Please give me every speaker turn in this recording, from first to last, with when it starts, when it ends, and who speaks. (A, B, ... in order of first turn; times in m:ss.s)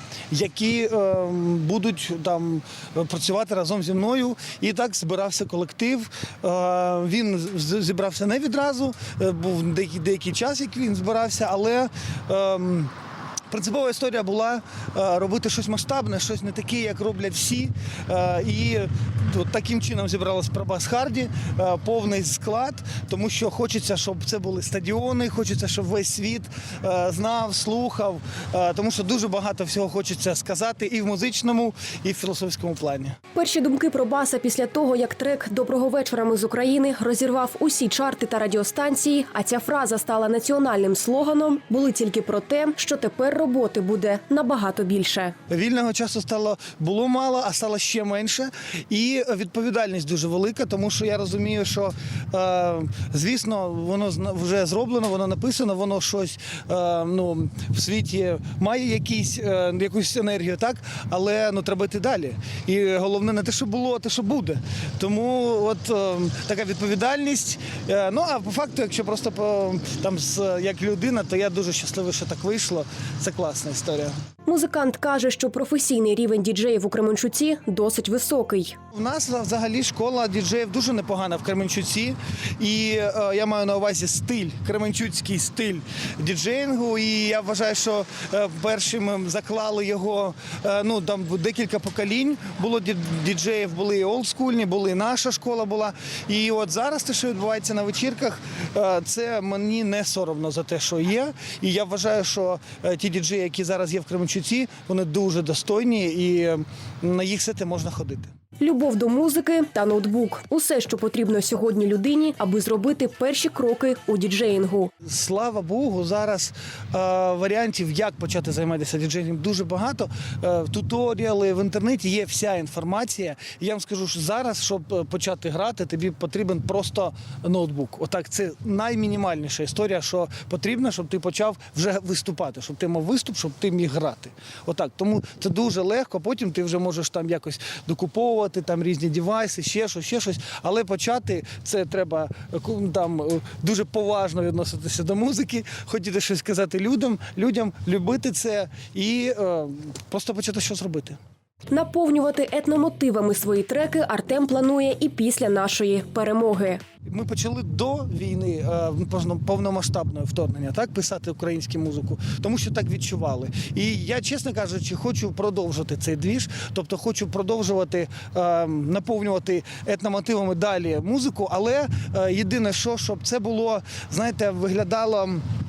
0:00.3-0:12.9 A
0:13.5-0:33.2 A
0:33.3-0:45.4 B
0:45.5-1:14.1 A
1:14.4-1:18.8 B
1:18.9-1:48.3 A
1:48.6-1:54.9 B
1:55.0-2:31.2 A
2:31.7-2:36.8 B
2:37.0-2:55.4 A